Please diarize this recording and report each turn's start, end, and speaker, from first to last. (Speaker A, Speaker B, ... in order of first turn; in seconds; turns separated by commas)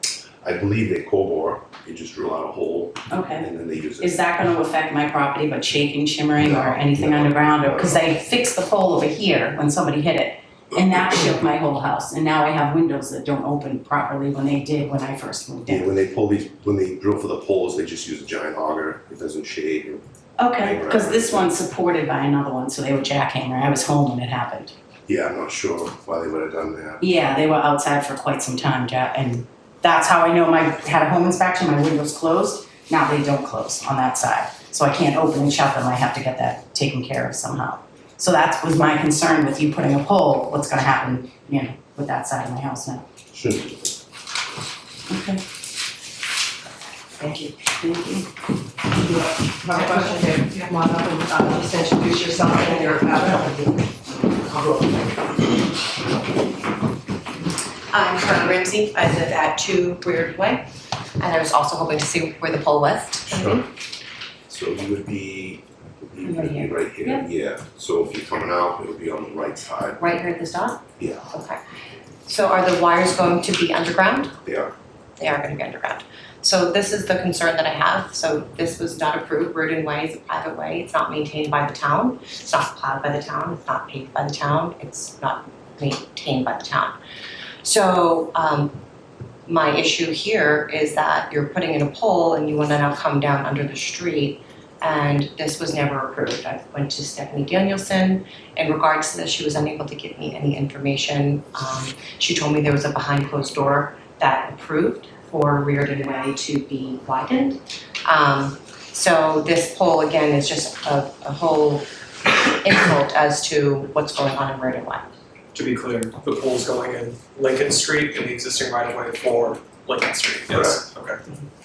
Speaker A: 0.4-4.2, Speaker B: 3.1-3.5, Speaker B: 4.0-15.8, Speaker A: 6.4-8.0, Speaker A: 15.7-20.0, Speaker B: 20.4-24.7, Speaker A: 20.6-21.5, Speaker A: 25.1-27.0, Speaker B: 27.0-43.0, Speaker A: 43.3-43.9, Speaker B: 45.1-45.4, Speaker C: 47.2-47.5, Speaker B: 47.8-48.2, Speaker D: 49.1-53.7, Speaker C: 49.7-50.7, Speaker C: 52.0-53.3, Speaker C: 57.9-60.6, Speaker C: 61.2-63.6, Speaker A: 63.3-63.6, Speaker A: 64.5-70.0, Speaker C: 66.2-67.2, Speaker C: 70.0-71.6, Speaker A: 71.0-71.3, Speaker C: 72.2-74.3, Speaker A: 74.4-74.7, Speaker C: 75.2-87.0, Speaker C: 87.6-88.8, Speaker C: 89.5-115.0, Speaker E: 115.5-121.2, Speaker A: 120.5-120.8